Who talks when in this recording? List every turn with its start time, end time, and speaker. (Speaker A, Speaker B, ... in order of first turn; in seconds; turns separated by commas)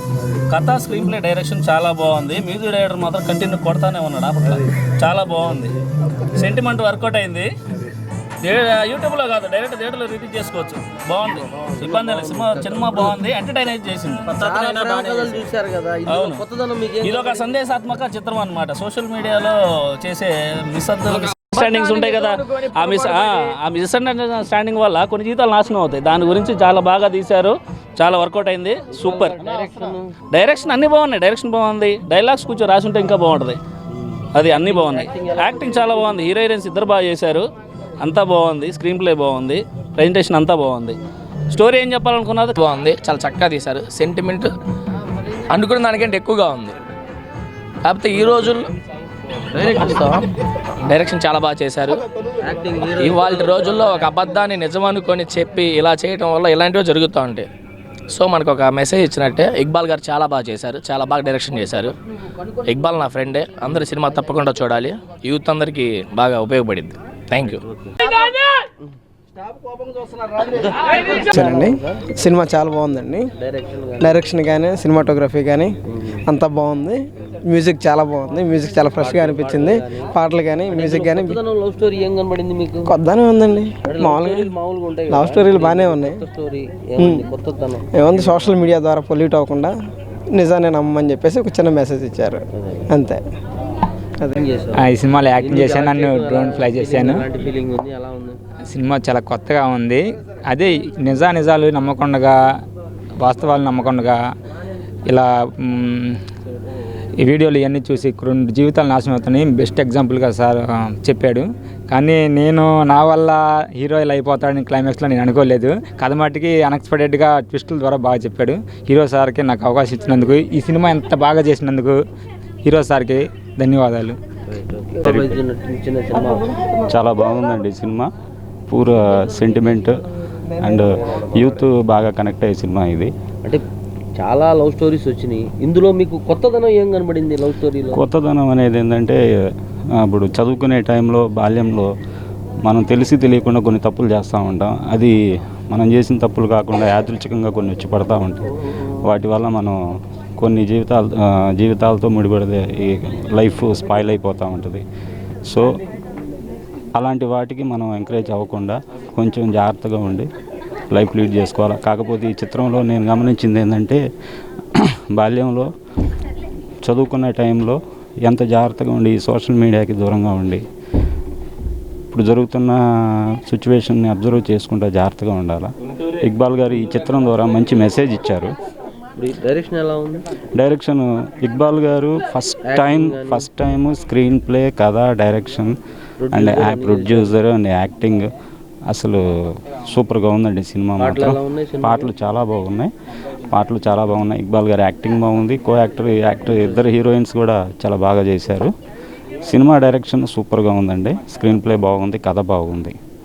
Speaker A: 0.5-5.7, Speaker A: 6.3-7.5, Speaker A: 8.4-15.4, Speaker B: 11.9-12.9, Speaker B: 14.3-17.5, Speaker A: 16.1-16.4, Speaker A: 17.0-29.4, Speaker B: 28.9-30.1, Speaker A: 30.3-33.6, Speaker B: 33.9-36.0, Speaker A: 34.3-37.5, Speaker A: 38.0-41.0, Speaker A: 41.5-42.6, Speaker C: 42.6-44.5, Speaker C: 45.5-46.8, Speaker C: 47.8-48.7, Speaker B: 49.5-50.2, Speaker C: 49.6-50.2, Speaker C: 50.8-52.0, Speaker B: 52.4-53.7, Speaker C: 52.9-57.5, Speaker C: 58.1-62.0, Speaker C: 62.6-67.6, Speaker B: 70.4-76.5, Speaker D: 71.4-71.7, Speaker D: 72.3-73.2, Speaker D: 74.0-75.7, Speaker D: 76.3-77.0, Speaker B: 77.2-88.8, Speaker D: 77.5-81.4, Speaker D: 82.9-84.5, Speaker D: 85.1-86.2, Speaker D: 87.0-87.2, Speaker D: 88.0-89.7, Speaker D: 90.4-92.4, Speaker B: 92.5-93.0, Speaker B: 94.2-98.4, Speaker E: 94.8-97.2, Speaker E: 98.7-102.3, Speaker E: 103.2-104.2, Speaker E: 105.1-106.2, Speaker E: 107.2-122.0, Speaker E: 122.7-124.2, Speaker B: 124.4-126.6, Speaker F: 125.0-125.4, Speaker F: 126.9-128.1, Speaker F: 128.7-130.0, Speaker F: 130.6-133.1, Speaker B: 130.7-131.6, Speaker B: 134.2-138.0, Speaker F: 137.9-139.2, Speaker F: 139.9-141.9, Speaker F: 142.6-145.1, Speaker F: 145.7-148.5, Speaker F: 149.0-149.8, Speaker F: 150.4-154.8, Speaker F: 156.9-160.3, Speaker F: 160.9-164.0, Speaker F: 164.7-165.7, Speaker F: 166.8-170.6, Speaker F: 172.1-172.8, Speaker F: 173.4-175.7, Speaker F: 176.2-178.5, Speaker B: 179.2-180.2, Speaker F: 180.6-185.7, Speaker B: 182.6-183.5, Speaker B: 186.2-187.3, Speaker F: 186.3-188.3, Speaker F: 188.9-192.9, Speaker B: 191.0-192.1, Speaker F: 193.5-198.7, Speaker B: 196.4-196.8, Speaker F: 199.5-202.9